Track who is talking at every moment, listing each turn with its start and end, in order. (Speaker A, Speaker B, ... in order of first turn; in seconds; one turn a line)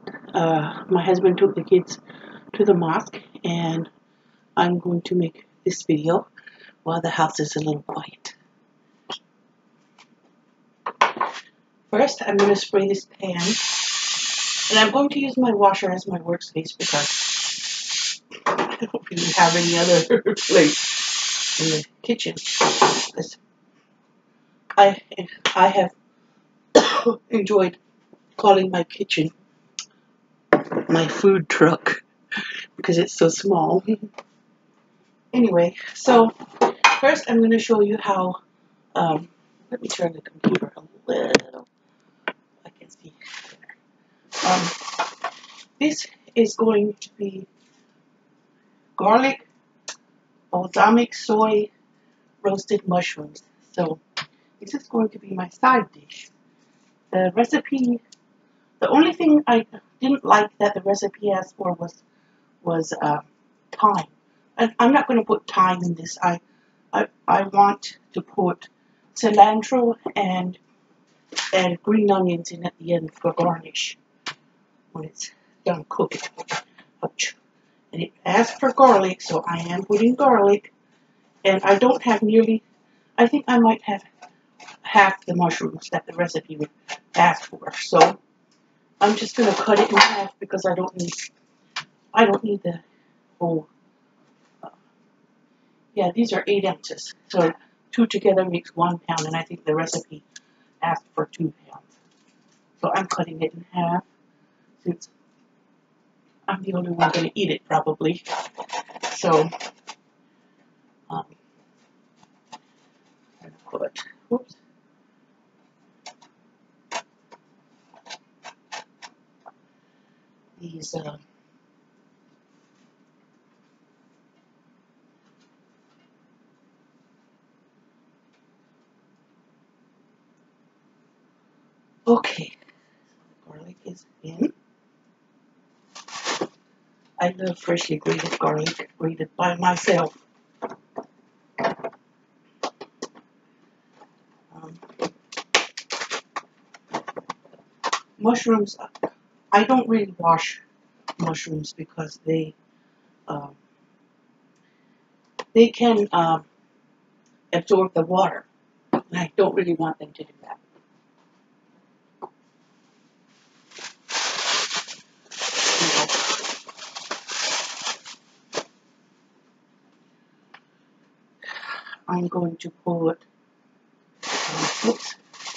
Speaker A: 0.3-2.0
Speaker A: 2.5-3.9
Speaker A: 4.6-6.3
Speaker A: 6.8-8.3
Speaker A: 11.9-13.6
Speaker A: 14.7-17.2
Speaker A: 18.4-20.8
Speaker A: 21.6-23.4
Speaker A: 24.8-25.9
Speaker A: 26.7-27.8
Speaker A: 28.4-29.3
Speaker A: 30.6-34.1
Speaker A: 35.3-38.4
Speaker A: 38.9-41.7
Speaker A: 42.6-43.8
Speaker A: 44.4-44.9
Speaker A: 45.8-47.5
Speaker A: 49.0-49.5
Speaker A: 50.5-51.7
Speaker A: 52.4-54.0
Speaker A: 54.6-56.3
Speaker A: 57.1-58.0
Speaker A: 58.8-62.0
Speaker A: 62.6-66.4
Speaker A: 66.9-70.6
Speaker A: 71.5-74.0
Speaker A: 74.9-77.3
Speaker A: 77.9-80.7
Speaker A: 81.4-82.6
Speaker A: 83.2-84.1
Speaker A: 84.8-88.2
Speaker A: 89.0-91.3
Speaker A: 92.1-92.8
Speaker A: 93.4-93.7
Speaker A: 95.9-100.2
Speaker A: 100.8-101.8
Speaker A: 102.8-104.0
Speaker A: 104.8-105.1
Speaker A: 106.5-108.2
Speaker A: 109.0-109.5
Speaker A: 111.1-111.3
Speaker A: 113.4-114.6
Speaker A: 120.6-121.2
Speaker A: 132.1-132.5
Speaker A: 133.2-134.5
Speaker A: 137.2-140.2
Speaker A: 144.5-144.8
Speaker A: 148.2-150.6
Speaker A: 151.2-152.5
Speaker A: 153.3-153.6
Speaker A: 155.5-156.4
Speaker A: 157.5-158.5
Speaker A: 159.1-160.6
Speaker A: 165.8-166.2
Speaker A: 171.6-173.2
Speaker A: 174.4-175.2